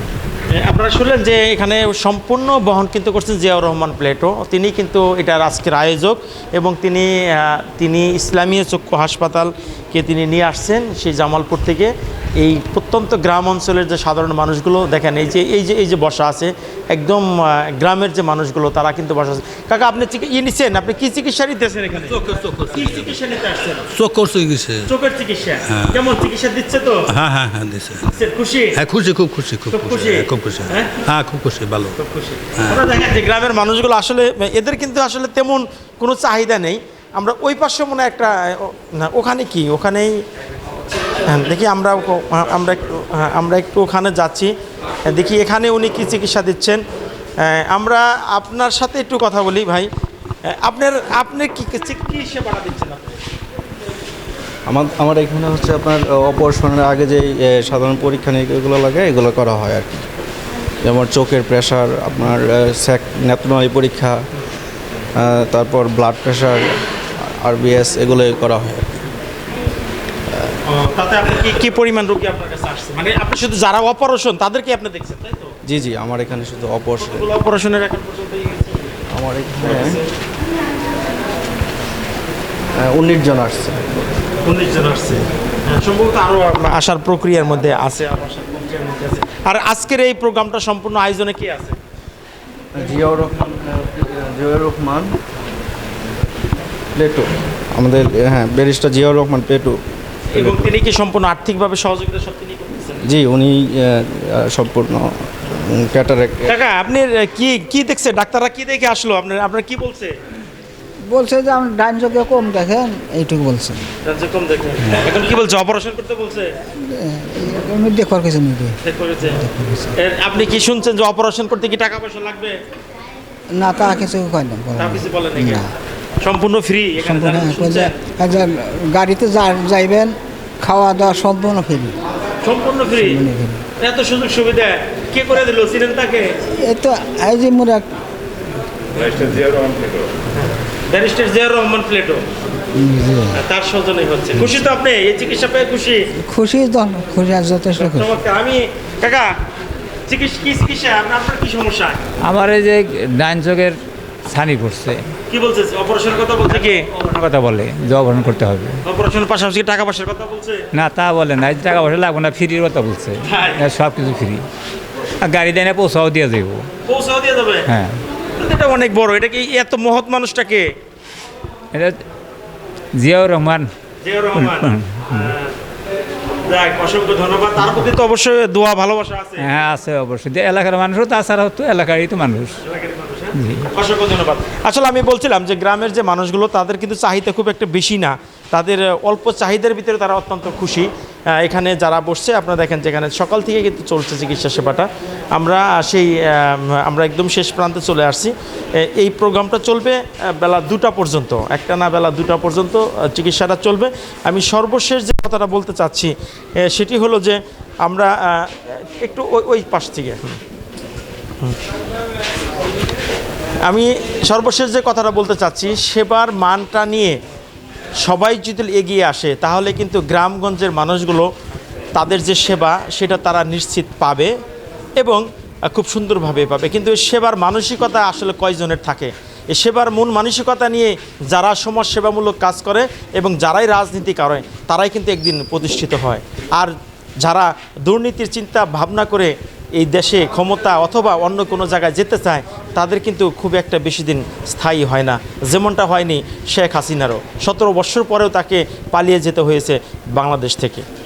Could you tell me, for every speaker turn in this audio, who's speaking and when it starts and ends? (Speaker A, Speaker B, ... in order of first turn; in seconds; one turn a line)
Speaker A: 0.6-23.9
Speaker B: 22.1-23.1
Speaker B: 23.9-24.9
Speaker A: 24.9-27.1
Speaker B: 25.6-25.9
Speaker B: 27.1-28.1
Speaker A: 28.0-28.8
Speaker B: 28.8-31.9
Speaker A: 29.6-30.9
Speaker A: 31.9-40.2
Speaker A: 41.2-44.5
Speaker A: 45.1-46.8
Speaker A: 47.4-49.9
Speaker A: 50.6-53.1
Speaker C: 54.7-60.1
Speaker C: 60.8-64.2
Speaker C: 65.2-69.0
Speaker A: 70.7-75.5
Speaker C: 75.7-77.3
Speaker A: 77.0-78.9
Speaker C: 79.1-80.0
Speaker A: 79.5-80.1
Speaker C: 82.8-83.9
Speaker A: 84.4-91.8
Speaker C: 92.7-95.1
Speaker C: 97.0-99.8
Speaker A: 100.3-103.0
Speaker C: 100.3-100.7
Speaker C: 103.0-106.5
Speaker A: 106.5-110.1
Speaker D: 111.1-113.8
Speaker A: 114.0-116.5
Speaker D: 116.9-118.8
Speaker A: 118.8-119.4
Speaker D: 119.3-119.9
Speaker A: 119.9-122.6
Speaker D: 123.5-125.7
Speaker A: 124.8-125.7
Speaker A: 126.2-128.0
Speaker D: 127.0-131.9
Speaker A: 132.4-133.3
Speaker D: 132.9-133.6
Speaker A: 133.8-136.2
Speaker D: 136.6-137.9
Speaker A: 140.3-142.2
Speaker D: 142.8-143.3
Speaker A: 143.3-146.0
Speaker D: 146.2-148.2
Speaker A: 147.8-149.3
Speaker A: 150.1-152.0
Speaker E: 152.3-153.8
Speaker E: 154.3-155.0
Speaker A: 155.3-157.0
Speaker E: 157.0-158.8
Speaker A: 158.8-160.6
Speaker E: 160.7-164.4
Speaker A: 163.2-163.6
Speaker E: 165.2-166.7
Speaker A: 166.9-167.7
Speaker E: 167.7-167.9
Speaker A: 168.4-170.7
Speaker E: 173.0-173.7
Speaker A: 174.0-175.5
Speaker E: 174.3-175.3
Speaker A: 176.5-179.4
Speaker E: 179.4-182.5
Speaker A: 182.6-206.1
Speaker E: 183.3-183.6
Speaker A: 206.7-210.3
Speaker A: 213.7-217.2
Speaker A: 218.0-221.3
Speaker A: 221.9-224.3
Speaker A: 225.0-250.8